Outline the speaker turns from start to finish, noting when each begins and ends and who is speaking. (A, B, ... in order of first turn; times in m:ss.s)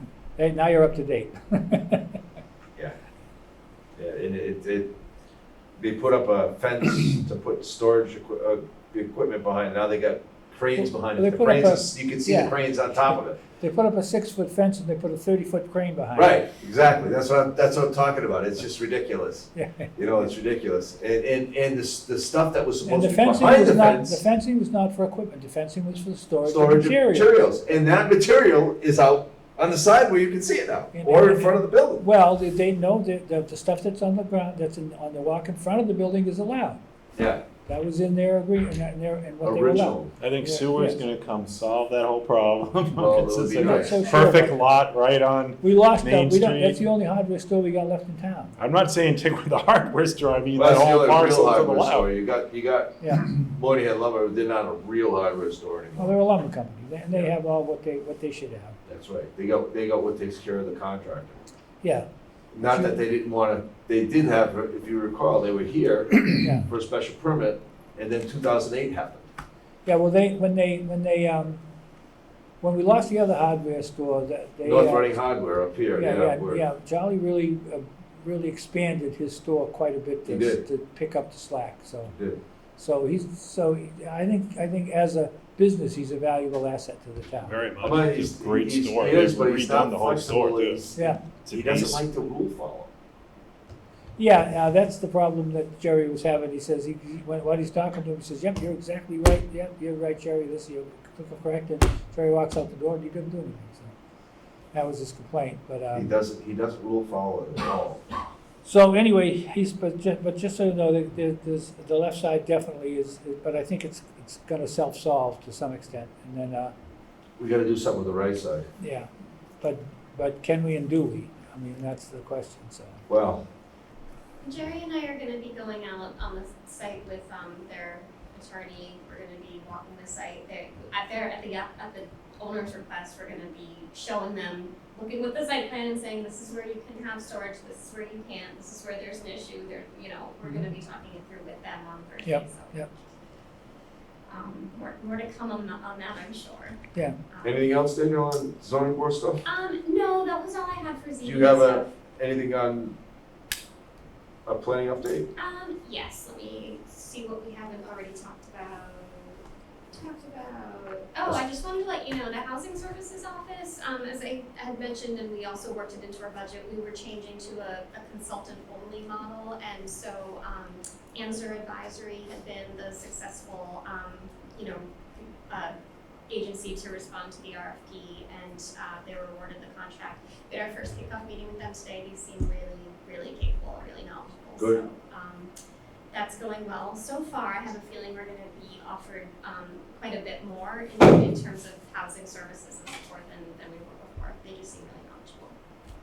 0:00.4-0:02.2 A
0:04.0-0:04.9 B
0:05.8-0:13.4 B
0:10.8-0:16.4 A
0:16.2-0:24.2 B
0:19.6-0:19.9 A
0:22.9-0:27.4 A
0:26.5-0:32.0 B
0:30.9-0:36.8 A
0:37.2-0:37.4 B
0:37.7-0:41.0 A
0:39.4-0:40.1 B
0:40.2-0:46.8 C
0:43.0-0:44.3 B
0:43.6-0:44.6 A
0:45.6-0:48.6 A
0:48.6-0:52.1 C
0:50.6-0:56.2 B
0:53.0-0:53.3 A
0:56.0-0:58.8 A
0:58.9-1:01.4 B
1:02.5-1:09.2 B
1:06.4-1:06.7 A
1:09.8-1:11.6 A
1:12.6-1:15.1 A
1:14.6-1:16.6 B
1:16.0-1:22.2 A
1:20.2-1:20.6 B
1:22.1-1:22.4 B
1:22.8-1:27.6 A
1:27.5-1:30.8 C
1:27.8-1:32.9 B
1:31.0-1:31.2 A
1:31.4-1:32.0 C
1:34.2-1:43.9 A
1:44.7-1:46.1 A
1:45.9-1:48.0 B
1:48.6-1:56.7 A
1:57.4-1:58.7 B
1:58.8-1:59.1 A
1:59.6-2:03.0 A
2:03.1-2:03.4 B
2:04.4-2:22.8 D
2:22.3-2:22.9 A
2:24.3-2:26.8 D
2:27.3-2:27.6 D
2:27.4-2:29.4 B
2:29.4-2:31.9 D
2:31.2-2:33.0 B
2:34.5-2:35.3 B
2:35.4-2:55.7 D
2:56.3-3:05.5 D
3:06.1-3:15.6 D